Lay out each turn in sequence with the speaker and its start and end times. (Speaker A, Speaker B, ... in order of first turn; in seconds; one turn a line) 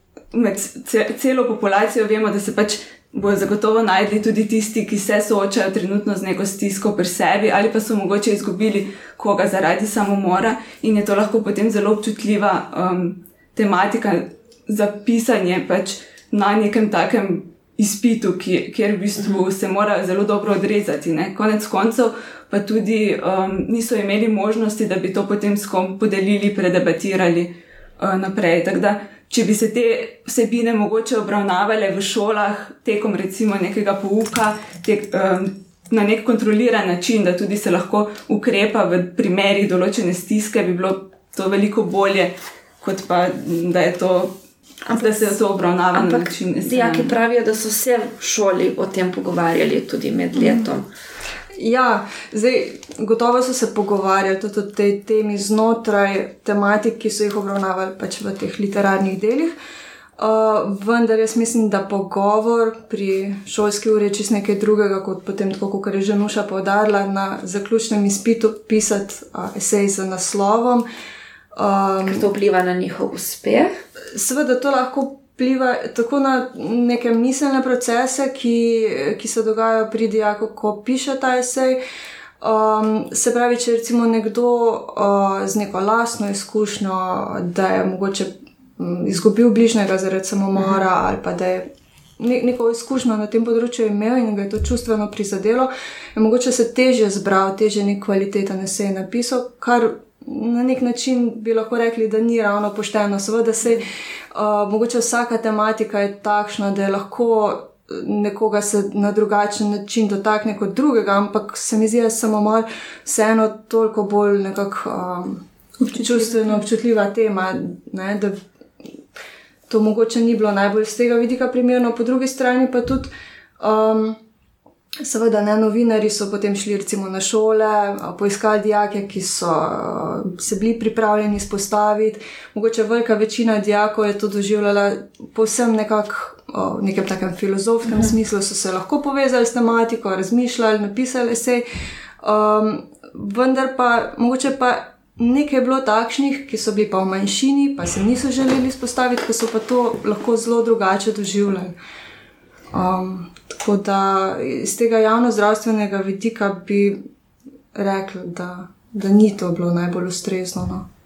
Speaker A: 0.3-44.4
Speaker B: 44.9-45.3
Speaker A: 44.9-47.1
Speaker B: 45.9-50.9
Speaker C: 50.4-50.6
Speaker C: 51.5-59.5
Speaker C: 60.2-70.8
Speaker C: 71.5-72.2
Speaker B: 72.0-73.8
Speaker C: 74.1-81.8
Speaker C: 82.4-91.6
Speaker C: 92.2-118.4
Speaker A: 115.8-116.6
Speaker C: 119.7-124.2
Speaker C: 125.0-141.6
Speaker C: 142.2-151.7
Speaker C: 152.7-157.0
Speaker C: 157.7-160.9